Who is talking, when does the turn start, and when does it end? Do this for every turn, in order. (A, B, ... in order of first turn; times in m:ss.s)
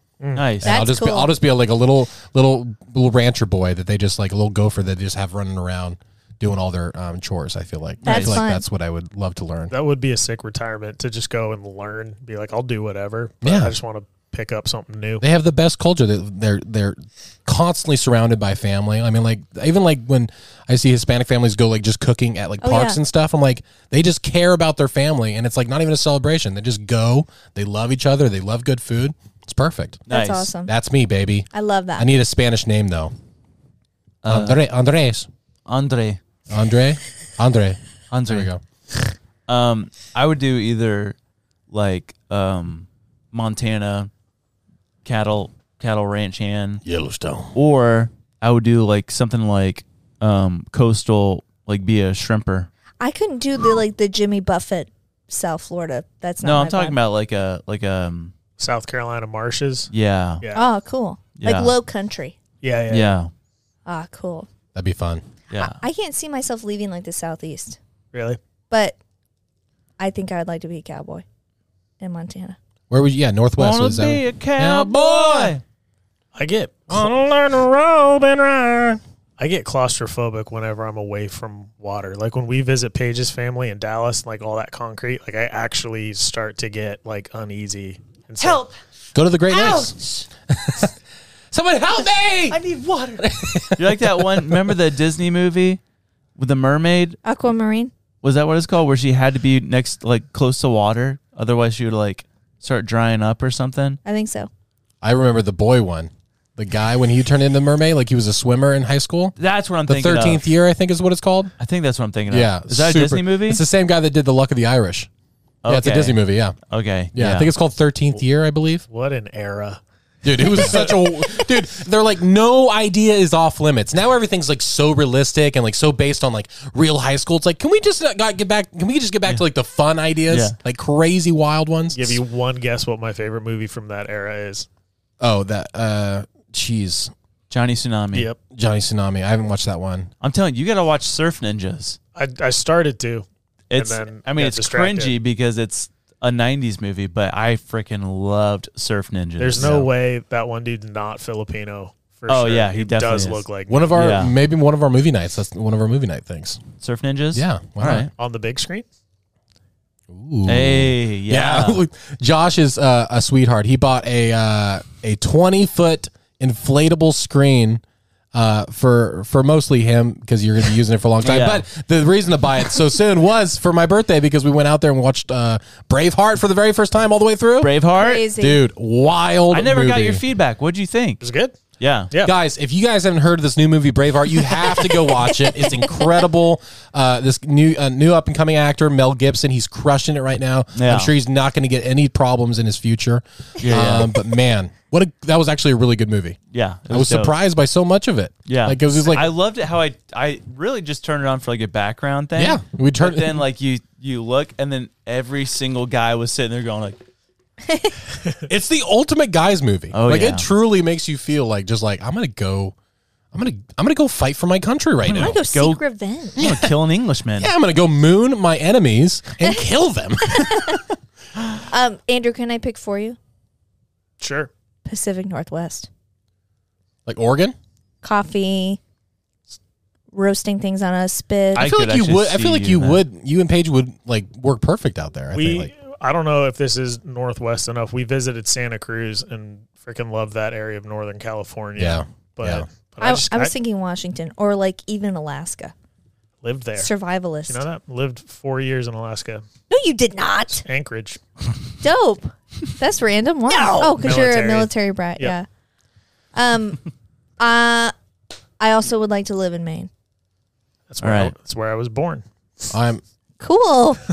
0:00.2-0:00.5 A
0:00.4-0:00.7 B
0:00.6-0:09.7 C
0:00.6-0:01.3 D
0:08.0-0:08.4 B
0:08.0-0:08.6 D
0:09.7-0:15.2 A
0:13.4-0:13.8 C
0:15.2-0:30.0 C
0:22.6-0:23.0 D
0:30.1-0:30.5 B
0:30.1-0:30.7 D
0:30.6-0:33.1 C
0:31.5-0:32.1 D
0:34.2-0:34.6 B
0:34.3-0:35.3 C
0:35.7-0:36.2 B
0:36.5-0:38.6 C
0:38.1-0:38.5 B
0:39.5-0:41.2 B
0:41.7-0:44.1 B
0:45.0-0:46.8 B
0:46.8-0:47.5 C
0:47.6-0:52.7 B
0:53.0-0:57.0 D
0:56.4-0:58.3 B
0:58.6-0:59.9 A
0:59.9-1:00.4 B
1:00.4-1:00.7 A
1:00.5-1:02.4 D
1:01.4-1:01.7 B
1:02.6-1:03.2 A
1:02.9-1:03.3 B
1:03.9-1:04.5 D
1:04.8-1:05.2 C
1:05.5-1:05.8 B
1:05.6-1:07.8 D
1:08.1-1:08.4 A
1:08.7-1:09.0 D
1:10.0-1:11.2 D
1:12.0-1:12.6 D
1:12.9-1:15.6 C
1:13.6-1:15.6 B
1:16.4-1:17.1 A
1:16.9-1:19.0 C
1:19.4-1:28.6 A
1:29.1-1:30.0 C
1:29.5-1:29.9 D
1:30.5-1:30.9 C
1:31.5-1:32.6 C
1:33.2-1:34.8 C
1:33.8-1:35.8 B
1:36.4-1:37.2 B
1:37.2-1:37.9 D
1:38.2-1:44.0 B
1:44.0-1:44.5 D
1:45.0-1:49.4 C
1:49.4-1:50.4 B
1:49.9-1:51.5 C
1:51.6-1:53.6 B
1:52.3-1:55.1 C
1:55.6-1:57.5 B
1:55.7-1:56.6 C
1:57.1-1:58.8 C
1:58.9-2:01.0 A
2:00.2-2:12.2 C
2:10.3-2:10.6 B
2:11.9-2:14.7 A
2:15.2-2:17.1 C
2:17.5-2:18.3 B
2:18.5-2:20.1 C
2:20.2-2:22.0 B
2:22.2-2:25.1 A
2:23.7-2:29.8 B
2:29.4-2:33.9 A
2:29.6-2:29.9 C
2:32.3-2:34.3 B
2:33.7-2:36.6 C
2:36.8-2:38.1 B
2:37.3-2:38.1 C
2:38.2-2:38.9 A
2:40.1-2:47.8 C
2:40.5-2:41.8 B
2:48.3-2:57.7 C
2:51.2-2:51.7 B
2:57.6-2:58.3 B
2:58.0-2:58.6 D
2:58.4-3:00.2 C
2:59.5-3:01.2 B
3:01.2-3:01.6 A
3:01.8-3:02.1 B
3:02.2-3:16.4 C
3:05.3-3:06.1 D
3:10.8-3:11.1 B
3:13.6-3:14.1 B
3:16.5-3:17.4 B
3:16.9-3:19.3 C
3:18.5-3:27.0 B
3:22.4-3:23.4 C
3:27.6-3:28.0 D
3:28.5-3:32.8 C
3:29.9-3:30.5 B
3:33.3-3:35.4 C
3:35.1-3:35.8 B
3:35.1-3:36.4 D
3:36.4-3:37.5 B
3:36.4-3:36.7 C
3:37.4-3:40.8 C
3:40.3-3:40.8 D
3:41.7-3:43.2 D
3:44.2-3:44.5 A
3:44.8-3:45.9 D
3:47.1-3:47.6 C
3:48.0-3:48.8 D
3:50.1-3:51.7 D
3:51.6-3:53.0 B
3:51.6-3:55.7 C
3:55.3-4:03.5 A
4:01.8-4:02.7 C
4:03.0-4:05.7 D
4:06.4-4:06.9 A
4:06.8-4:07.6 D
4:07.5-4:09.4 A
4:09.7-4:10.6 D
4:10.6-4:11.2 A
4:11.8-4:15.5 D
4:13.6-4:15.4 A
4:16.4-4:16.8 D
4:17.4-4:17.9 D
4:18.6-4:19.9 D
4:20.9-4:22.2 A
4:21.0-4:21.3 B
4:22.7-4:23.0 C
4:23.4-4:24.0 D